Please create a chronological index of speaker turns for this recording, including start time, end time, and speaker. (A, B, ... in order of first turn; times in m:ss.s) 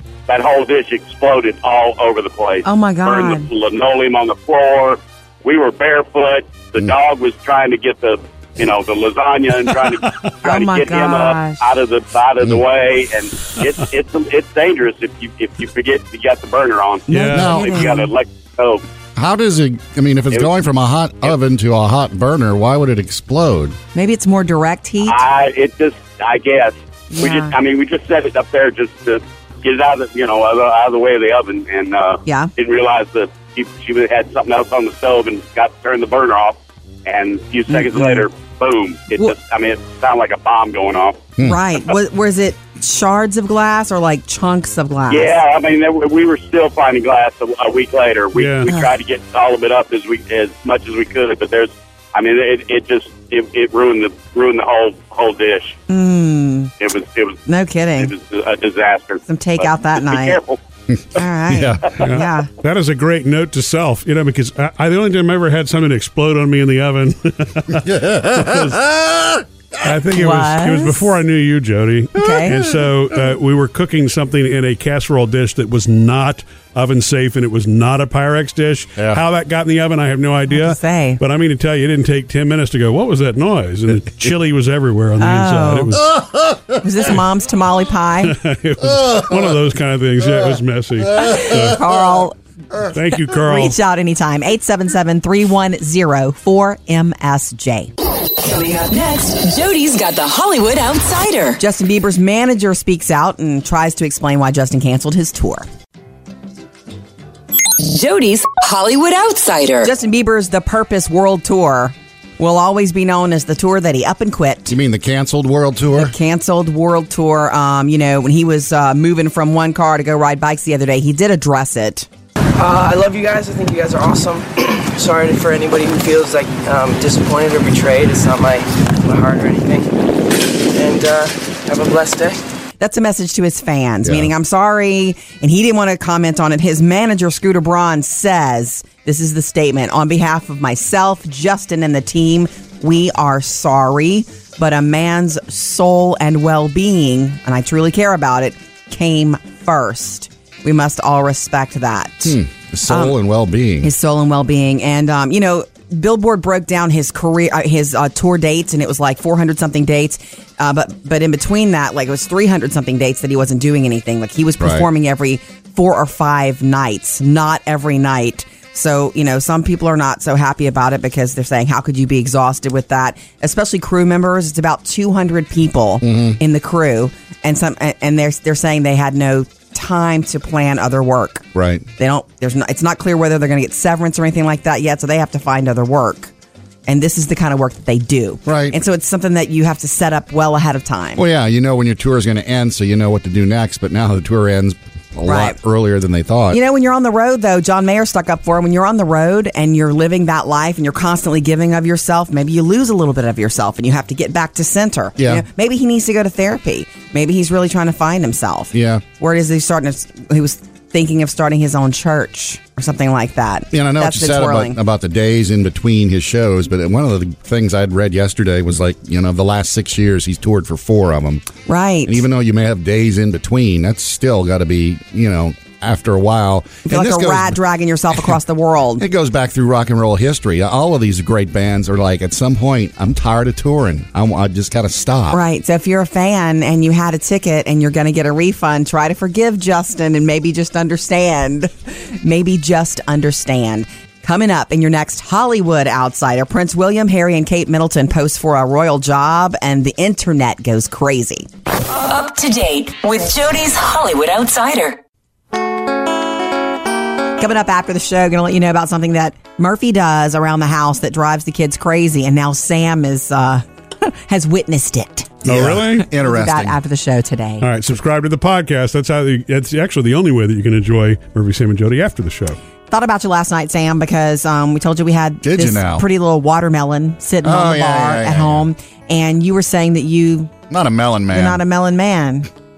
0:00.3-0:18.8 A
0:02.6-0:03.5 B
0:10.4-0:11.6 B
0:17.1-0:17.5 C
0:17.1-0:18.1 B
0:17.3-0:17.9 D
0:19.2-0:23.8 D
0:23.9-0:25.2 B
0:25.0-0:41.2 A
0:27.1-0:27.5 B
0:37.7-0:38.2 B
0:41.4-0:45.3 B
0:45.1-0:55.8 A
0:48.3-0:48.7 C
0:55.9-0:56.7 B
0:56.8-0:57.4 A
0:57.5-0:58.1 B
0:58.0-1:00.6 A
0:59.3-1:00.4 B
1:00.9-1:01.9 D
1:01.2-1:02.5 B
1:02.0-1:08.8 C
1:07.8-1:09.4 D
1:09.8-1:26.1 C
1:10.1-1:11.0 B
1:12.1-1:12.6 B
1:12.4-1:12.7 D
1:20.5-1:21.2 B
1:25.2-1:26.1 B
1:26.8-1:28.4 B
1:28.2-1:31.8 C
1:31.2-1:32.4 B
1:32.9-1:33.8 C
1:33.3-1:37.9 B
1:38.4-1:41.6 E
1:41.6-1:45.6 B
1:47.8-1:49.9 E
1:49.8-1:54.8 B
1:54.7-1:56.1 D
1:56.0-2:02.1 B
2:02.6-2:10.0 F
2:10.6-2:12.4 F
2:12.8-2:33.2 B
2:14.0-2:14.3 D
2:32.2-2:33.9 D
2:33.8-3:01.5 B
2:44.6-2:44.9 D
2:56.0-2:56.4 D
3:01.5-3:01.8 D
3:02.0-3:06.3 B
3:06.9-3:11.2 B
3:08.4-3:08.8 D
3:11.2-3:16.6 D
3:15.2-3:15.6 B
3:16.5-3:34.8 B
3:25.2-3:25.4 D
3:28.7-3:29.0 D
3:33.7-3:41.5 D
3:41.7-3:42.2 B
3:42.0-3:47.6 D
3:46.9-3:49.0 B
3:49.0-3:55.4 D
3:55.3-4:11.5 B
4:11.9-4:15.0 E
4:17.4-4:27.6 B
4:25.4-4:26.1 C
4:25.4-4:26.8 D
4:27.6-4:32.6 C
4:32.9-4:40.5 B
4:35.4-4:36.0 D
4:37.4-4:38.6 D
4:40.7-4:41.6 D
4:41.3-4:42.5 B